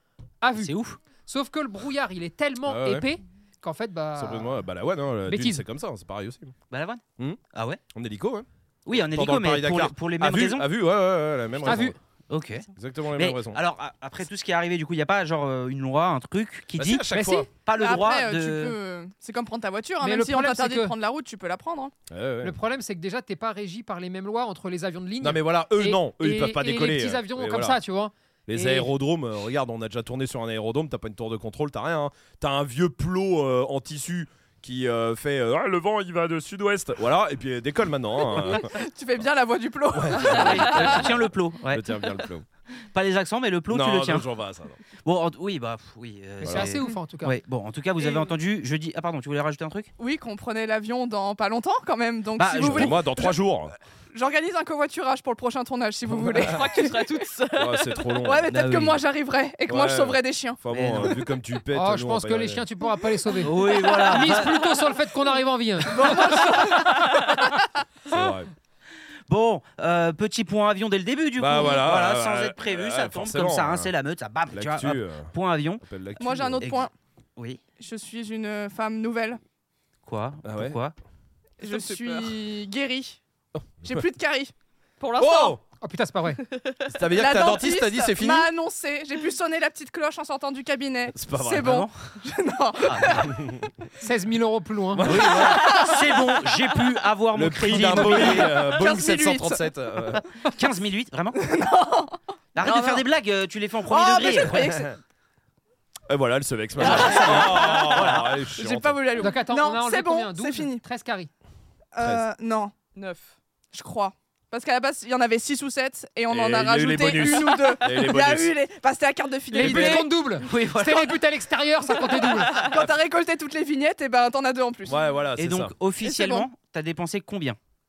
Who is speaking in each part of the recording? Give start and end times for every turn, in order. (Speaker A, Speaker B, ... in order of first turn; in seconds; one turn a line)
Speaker A: 0.4-0.7
Speaker B: 0.6-1.0
Speaker A: 1.2-4.6
Speaker C: 2.6-3.1
Speaker C: 4.2-6.5
Speaker A: 5.3-5.6
Speaker B: 6.7-7.0
Speaker B: 7.5-7.8
Speaker C: 7.9-11.9
Speaker B: 8.8-10.7
Speaker B: 11.6-17.0
Speaker A: 11.6-11.9
Speaker C: 12.8-13.6
Speaker C: 16.8-17.5
Speaker A: 17.1-17.5
Speaker B: 17.6-18.8
Speaker D: 17.8-21.9
Speaker A: 20.0-20.9
Speaker C: 22.1-22.6
Speaker A: 22.4-28.9
Speaker C: 25.2-27.8
Speaker C: 28.5-38.7
Speaker D: 38.4-41.2
Speaker C: 39.9-42.4
Speaker B: 40.2-41.9
Speaker B: 42.9-44.2
Speaker C: 43.7-44.8
Speaker B: 45.0-49.9
Speaker A: 46.4-47.4
Speaker C: 46.4-46.7
Speaker D: 48.0-48.3
Speaker D: 50.0-53.3
Speaker B: 52.4-53.0
Speaker C: 52.6-53.7
Speaker D: 54.1-57.1
Speaker E: 56.4-58.2
Speaker C: 57.5-58.5
Speaker D: 58.2-60.6
Speaker B: 58.5-59.0
Speaker C: 59.7-62.6
Speaker B: 60.7-61.2
Speaker A: 61.7-66.5
Speaker B: 63.4-64.7
Speaker D: 65.9-66.9
Speaker E: 66.8-67.3
Speaker C: 68.1-68.5
Speaker B: 69.3-75.8
Speaker C: 71.4-73.9
Speaker C: 74.5-76.7
Speaker D: 76.2-76.9
Speaker D: 77.8-79.4
Speaker B: 80.0-80.9
Speaker C: 80.4-80.8
Speaker D: 81.6-83.2
Speaker E: 81.6-82.4
Speaker C: 83.5-84.0
Speaker D: 83.8-84.5
Speaker E: 85.0-85.6
Speaker C: 85.2-85.6
Speaker A: 85.8-86.4
Speaker E: 86.4-86.9
Speaker C: 86.9-88.5
Speaker D: 87.1-93.5
Speaker C: 91.1-91.9
Speaker B: 91.6-91.9
Speaker B: 92.8-93.2
Speaker C: 93.2-93.7
Speaker A: 94.0-95.1
Speaker C: 94.9-95.8
Speaker B: 95.0-98.5
Speaker D: 95.2-96.8
Speaker C: 97.3-100.2
Speaker D: 97.7-100.2
Speaker B: 100.5-101.4
Speaker D: 101.4-103.0
Speaker B: 102.5-104.7
Speaker D: 103.9-105.0
Speaker C: 104.5-105.0
Speaker C: 106.1-109.0
Speaker B: 106.8-108.3
Speaker D: 106.8-110.8
Speaker A: 109.2-111.3
Speaker D: 111.9-112.7
Speaker C: 112.0-112.2
Speaker E: 112.9-113.3
Speaker D: 113.7-120.1
Speaker C: 116.3-118.5
Speaker A: 119.5-122.6
Speaker C: 119.6-120.0
Speaker B: 120.4-121.2
Speaker D: 122.5-125.0
Speaker C: 124.8-125.7
Speaker B: 125.4-127.6
Speaker D: 126.0-126.5